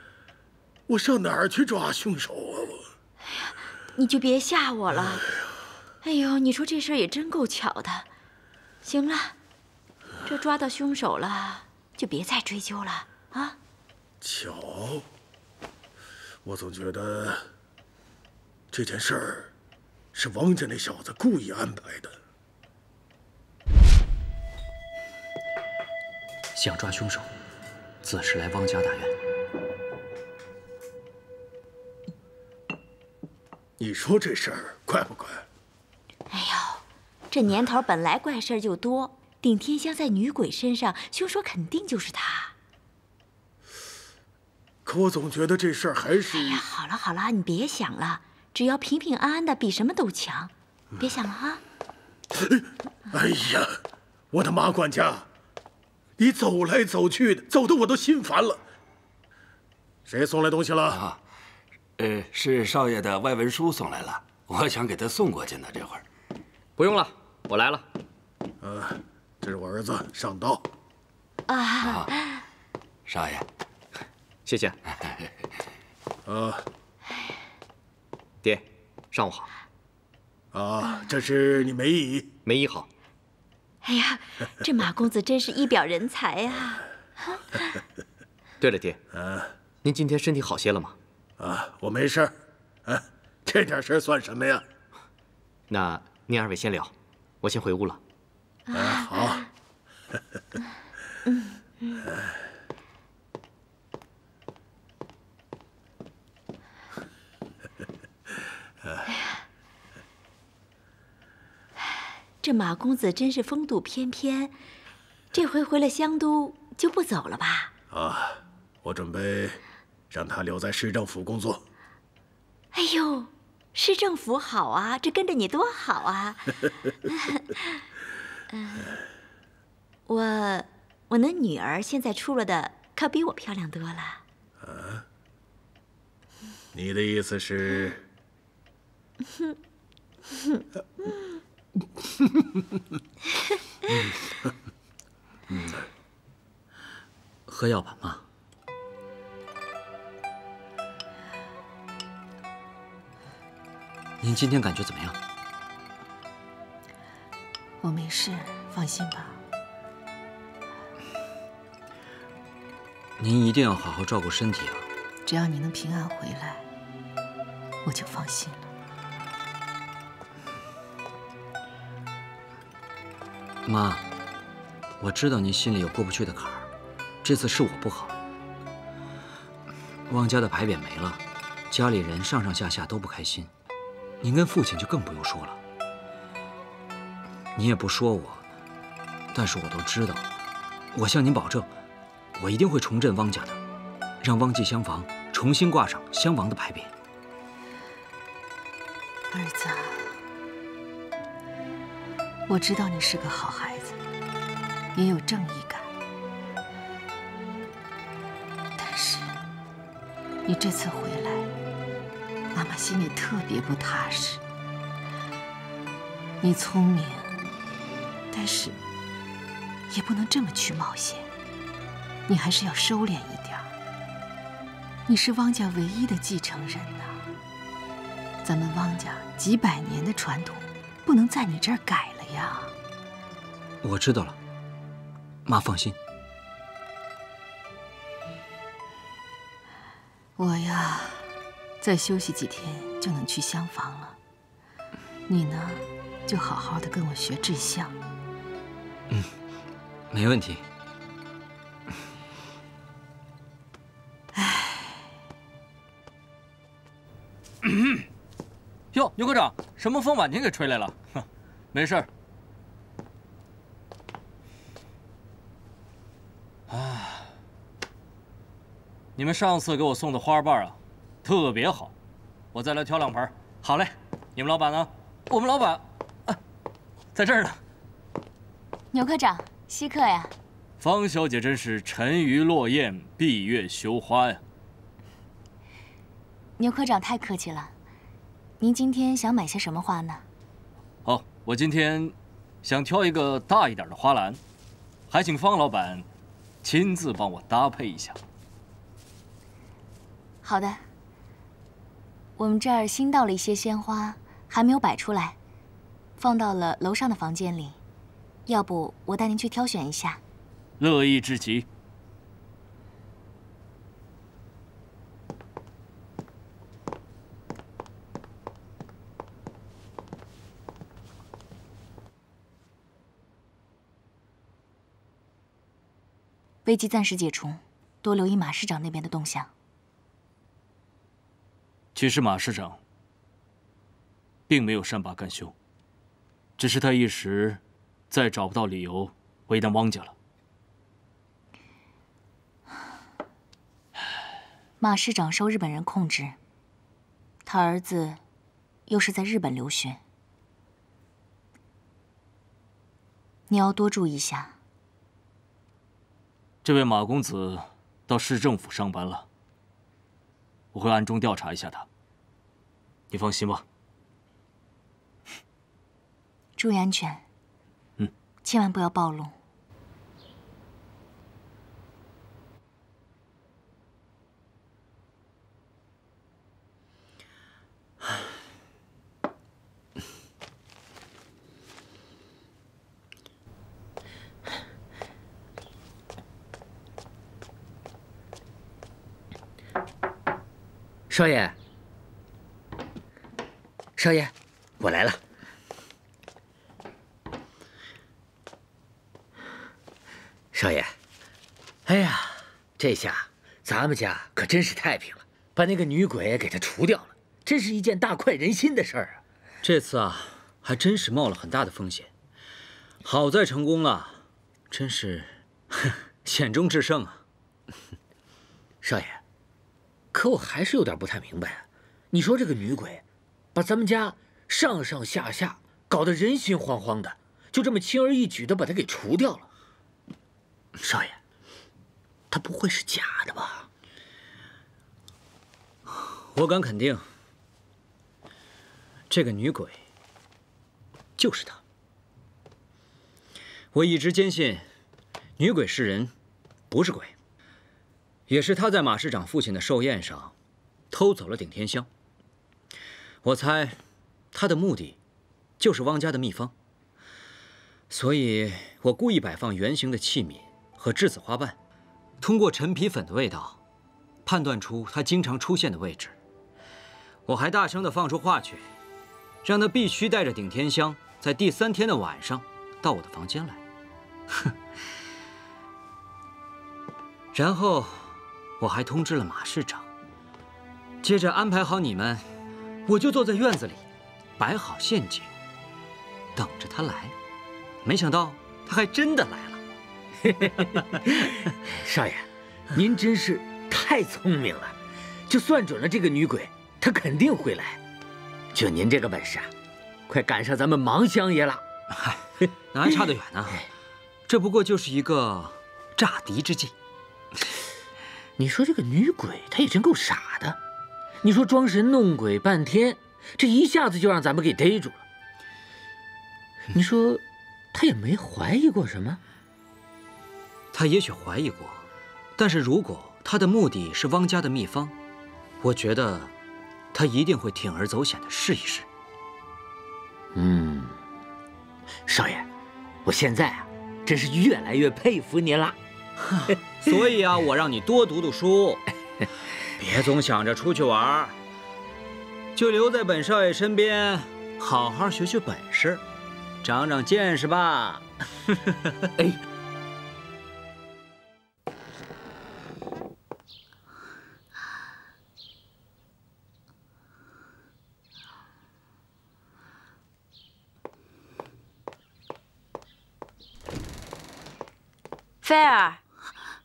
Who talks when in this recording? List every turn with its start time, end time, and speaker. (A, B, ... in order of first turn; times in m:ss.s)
0:00.9-0:02.8 A
0:03.4-0:05.2 B
0:06.0-0:08.1 B
0:08.8-0:09.3 B
0:10.2-0:13.6 B
0:14.2-0:15.0 A
0:16.4-0:17.4 A
0:18.7-0:19.5 A
0:20.1-0:22.1 A
0:26.5-0:27.3 C
0:28.0-0:29.1 C
0:33.8-0:35.4 A
0:36.3-0:42.5 B
0:44.8-0:46.6 A
0:46.3-0:51.6 B
0:52.5-0:53.7 A
0:54.3-0:55.3 A
0:56.2-0:58.6 A
1:00.0-1:01.0 A
1:00.9-1:01.2 D
1:02.0-1:06.0 D
1:06.8-1:07.8 E
1:08.6-1:10.6 A
1:11.5-1:12.4 B
1:11.8-1:12.1 D
1:13.1-1:13.4 D
1:14.4-1:14.8 E
1:15.0-1:15.3 D
1:16.2-1:16.6 A
1:18.4-1:19.5 E
1:20.5-1:22.3 A
1:22.4-1:22.9 E
1:23.8-1:26.8 B
1:28.6-1:29.0 E
1:29.1-1:29.5 A
1:29.8-1:31.0 E
1:31.4-1:32.3 A
1:32.8-1:34.6 A
1:35.7-1:38.0 E
1:38.7-1:39.4 A
1:52.4-1:54.5 B
1:55.3-1:57.7 B
1:57.9-2:01.6 A
2:02.7-2:07.6 B
2:08.5-2:08.9 B
2:10.1-2:14.2 B
2:14.6-2:15.0 A
2:16.7-2:18.0 A
2:27.5-2:28.2 C
2:34.2-2:35.2 C
2:37.8-2:39.4 F
2:43.2-2:44.9 C
2:45.2-2:46.6 F
2:47.8-2:48.7 F
2:53.6-2:54.1 C
2:55.0-2:56.7 C
2:57.2-2:58.1 C
3:00.1-3:03.5 C
3:04.2-3:05.6 C
3:07.5-3:08.4 C
3:09.3-3:10.2 C
3:10.9-3:11.7 C
3:12.3-3:13.6 C
3:14.2-3:16.9 C
3:19.3-3:20.2 F
3:22.5-3:24.0 F
3:24.9-3:25.9 F
3:28.8-3:29.4 F
3:30.4-3:31.5 F
3:32.5-3:34.4 F
3:36.4-3:37.4 F
3:38.3-3:38.8 F
3:39.9-3:41.3 F
3:42.3-3:43.7 F
3:45.1-3:47.2 F
3:48.4-3:52.7 F
3:53.8-3:54.4 C
3:55.4-3:56.0 C
4:00.4-4:01.3 F
4:01.8-4:04.2 F
4:05.3-4:08.0 F
4:10.1-4:10.6 C
4:14.3-4:15.1 F
4:17.6-4:18.0 G
4:18.9-4:22.1 G
4:26.7-4:27.3 G
4:29.2-4:31.9 G
4:32.5-4:36.4 G
4:37.1-4:37.6 G
4:38.9-4:40.3 H
4:40.8-4:44.4 G
4:46.6-4:47.7 H
4:48.6-4:50.2 H
4:51.0-4:54.4 G
4:55.1-4:56.0 G
4:56.6-4:58.2 G
5:00.4-5:00.8 H
5:02.4-5:05.4 H
5:06.2-5:07.8 H
5:08.5-5:10.2 H
5:10.8-5:11.6 G
5:26.6-5:29.5 H
5:31.9-5:32.8 G
5:34.5-5:35.5 G
5:36.6-5:40.1 G
5:44.8-5:46.4 H
5:47.4-5:48.2 H
5:48.9-5:50.0 H
5:53.5-5:54.5 H
5:56.6-5:59.2 G
6:00.7-6:01.9 G
6:03.1-6:03.6 G
6:06.6-6:07.2 H
6:08.4-6:09.3 H
6:31.1-6:31.6 I
6:34.0-6:35.2 I
6:40.5-6:40.9 I
6:41.8-6:49.2 I
6:49.6-6:52.1 C
6:53.0-6:57.2 C
6:58.8-6:59.2 I
7:00.1-7:09.5 I
7:10.8-7:11.2 I
7:12.3-7:13.7 I
7:15.9-7:17.1 C
7:19.1-7:19.8 C
7:21.2-7:21.6 C
7:23.7-7:24.6 C
7:25.4-7:26.1 C
7:26.7-7:27.1 C
7:28.3-7:30.3 C
7:30.9-7:31.9 C
7:33.2-7:33.8 C
7:34.3-7:35.0 C
7:35.6-7:36.5 C
7:37.9-7:41.6 C
7:42.2-7:43.6 C
7:44.2-7:46.2 C
7:47.2-7:48.6 C
7:49.4-7:53.6 C
7:57.3-7:59.9 C
8:01.0-8:02.2 C
8:02.8-8:03.8 C
8:04.4-8:05.3 C
8:06.4-8:07.1 C
8:07.8-8:09.6 C
8:10.4-8:14.8 I
8:10.6-8:11.4 C
8:15.3-8:17.8 I
8:18.5-8:19.5 I
8:20.1-8:21.6 I
8:21.9-8:23.7 C
8:24.3-8:26.7 C
8:28.4-8:30.6 I
8:31.2-8:35.0 I
8:36.7-8:39.2 I
8:40.7-8:41.8 C
8:42.4-8:44.9 C
8:45.6-8:46.3 C
8:46.9-8:48.9 C
8:50.3-8:51.0 I
8:52.0-8:52.5 I
8:53.0-8:55.8 I
8:56.2-8:58.8 C
8:59.8-9:01.4 C
9:02.5-9:06.0 C
9:06.6-9:09.1 C
9:25.4-9:26.0 B